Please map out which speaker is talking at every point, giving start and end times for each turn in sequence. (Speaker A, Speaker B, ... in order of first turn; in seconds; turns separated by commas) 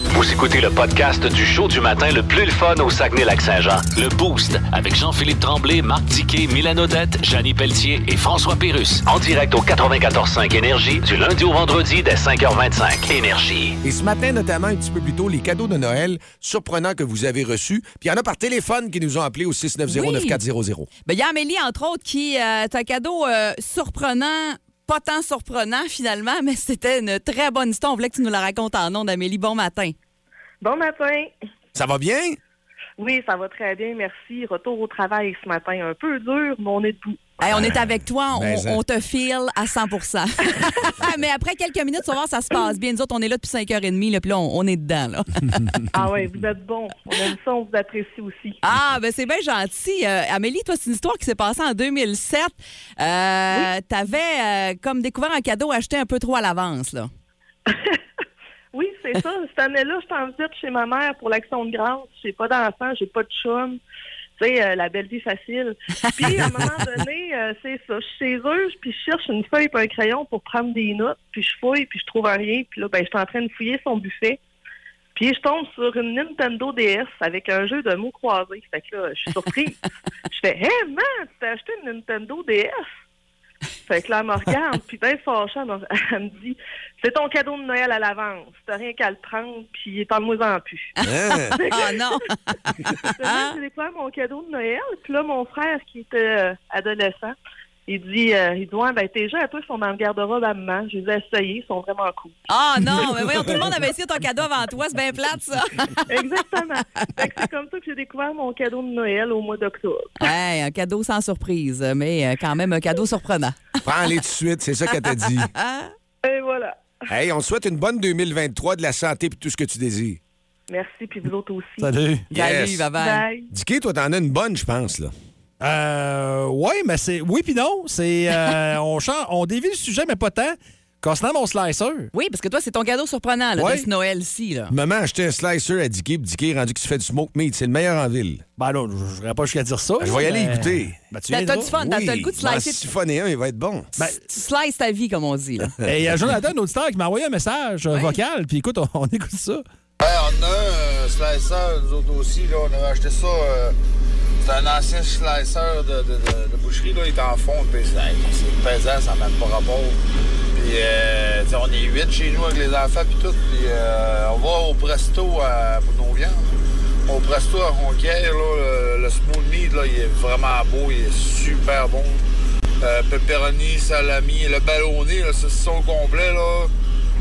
Speaker A: 0.1-13.8, Speaker B: 13.8-20.9, Speaker C: 19.9-20.4, Speaker C: 21.1-29.9, Speaker D: 30.6-31.3, Speaker B: 31.7-32.4, Speaker D: 33.0-37.4, Speaker C: 37.4-45.8, Speaker B: 37.5-38.8, Speaker D: 45.9-48.6, Speaker C: 48.6-57.1, Speaker D: 57.7-58.0, Speaker D: 58.7-63.8, Speaker D: 64.4-74.4, Speaker D: 75.2-79.8, Speaker D: 80.3-82.9, Speaker D: 83.9-90.9, Speaker C: 91.0-93.5, Speaker B: 91.0-91.6, Speaker D: 91.6-92.0, Speaker D: 93.2-97.3, Speaker D: 97.9-102.4, Speaker C: 102.5-106.1, Speaker D: 106.1-110.1, Speaker C: 110.2-113.8, Speaker B: 113.8-115.5, Speaker C: 115.0-115.9, Speaker D: 116.2-116.8, Speaker B: 117.1-120.2, Speaker D: 120.7-121.9, Speaker E: 121.8-122.3, Speaker B: 122.3-122.9, Speaker C: 122.3-123.3, Speaker D: 123.0-123.5, Speaker B: 123.5-125.1, Speaker E: 125.6-132.1, Speaker C: 132.1-134.7, Speaker E: 133.6-133.9, Speaker B: 134.7-138.4, Speaker E: 138.6-141.7, Speaker B: 140.0-141.0, Speaker C: 141.3-142.8, Speaker B: 141.7-143.9, Speaker C: 144.0-145.7, Speaker E: 145.8-149.6, Speaker C: 147.9-148.2, Speaker F: 150.0-153.8, Speaker F: 154.4-160.0, Speaker F: 160.5-172.2, Speaker F: 172.8-176.7